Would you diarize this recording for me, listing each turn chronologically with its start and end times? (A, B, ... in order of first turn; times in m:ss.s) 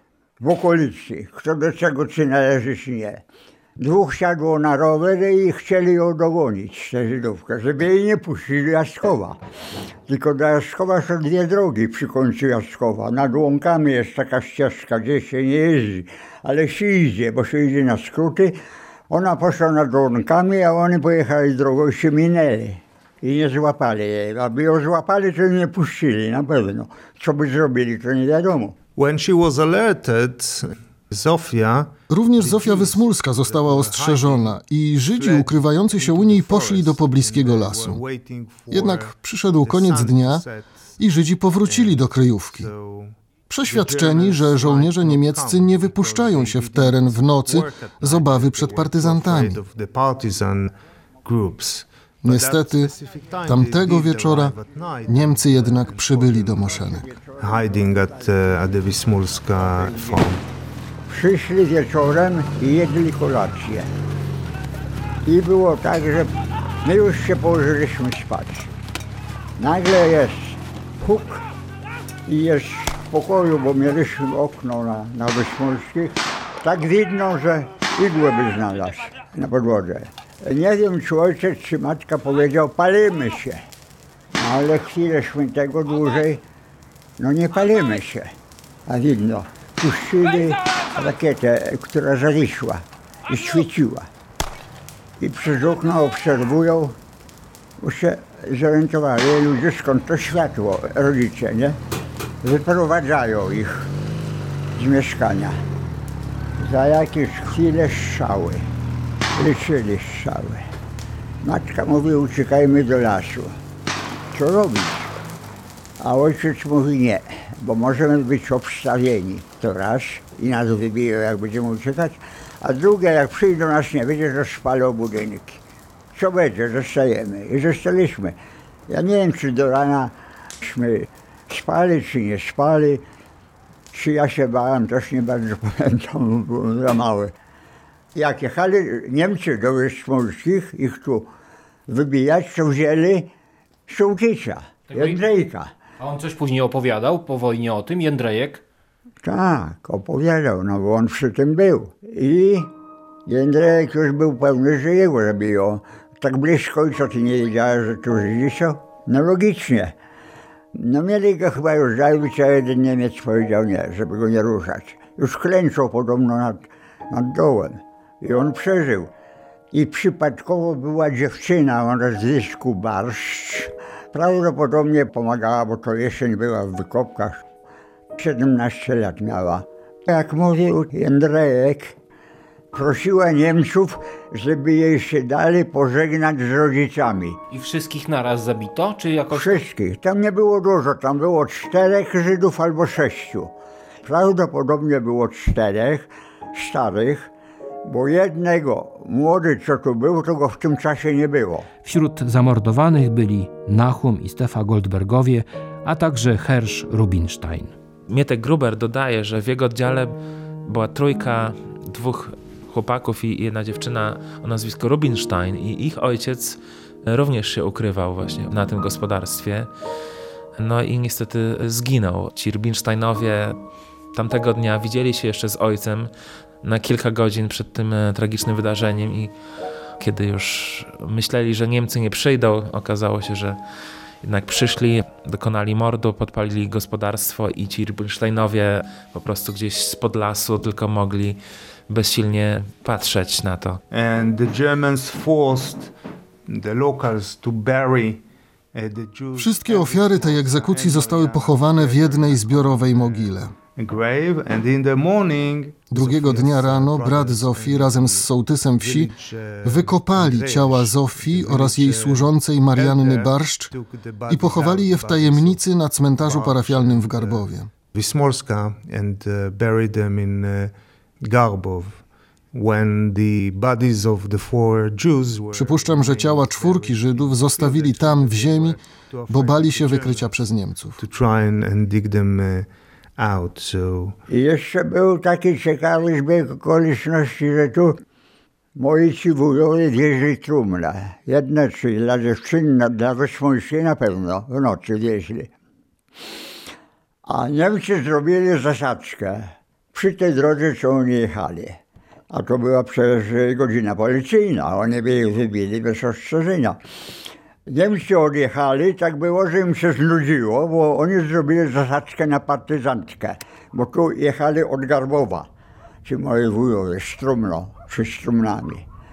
0:00.4-0:03.2 A
0:03.8-0:09.4 A
0:10.1-0:18.6 A
0:19.1-0:28.8 A
0:29.0-0:34.6 B
0:32.1-0:38.0 C
0:35.1-0:40.9 B
0:38.7-0:40.4 C
0:41.0-0:42.7 C
0:41.6-0:43.2 B
0:43.5-0:49.6 C
0:43.7-1:00.4 B
0:52.2-0:52.9 C
0:53.5-0:57.1 C
0:56.8-1:00.3 A
1:01.1-1:03.9 A
1:05.2-1:06.3 A
1:06.8-1:08.7 A
1:09.6-1:11.4 A
1:12.3-1:23.6 A
1:24.4-1:26.4 A
1:27.2-1:28.3 A
1:28.9-1:34.1 A
1:35.2-1:37.0 A
1:37.8-1:41.8 A
1:42.4-1:43.9 A
1:44.8-1:45.6 A
1:46.6-1:48.7 A
1:49.4-1:50.7 A
1:51.4-1:53.6 A
1:54.3-1:55.2 A
1:56.0-2:05.6 A
2:06.2-2:08.4 A
2:08.9-2:13.0 A
2:13.9-2:17.3 A
2:18.2-2:21.3 A
2:21.9-2:23.3 A
2:23.9-2:25.7 A
2:24.9-2:25.3 D
2:26.0-2:28.6 D
2:29.2-2:32.7 A
2:33.3-2:40.0 A
2:40.8-2:49.1 A
2:49.7-2:57.4 A
2:58.2-3:02.0 A
3:02.7-3:07.4 A
3:07.5-3:09.6 D
3:09.3-3:13.5 A
3:14.0-3:17.3 A
3:17.9-3:21.7 A
3:21.8-3:27.7 D
3:28.1-3:30.1 E
3:30.7-3:39.7 E
3:40.6-3:43.6 E
3:44.1-3:46.1 E
3:46.6-3:49.3 E
3:50.0-3:53.6 E
3:54.2-4:03.8 E
4:03.9-4:05.9 B
4:06.5-4:08.2 B
4:08.7-4:18.3 B
4:09.4-4:13.6 C
4:15.9-4:19.1 C
4:18.8-4:25.6 B
4:19.6-4:23.7 C
4:24.3-4:27.7 C
4:26.2-4:40.4 B
4:35.5-4:38.8 C
4:39.3-4:41.0 C
4:41.0-4:44.2 B
4:44.3-4:48.0 A
4:48.8-4:55.5 A
4:57.3-5:01.8 A
5:02.3-5:06.8 A
5:07.7-5:15.5 A
5:16.0-5:18.8 A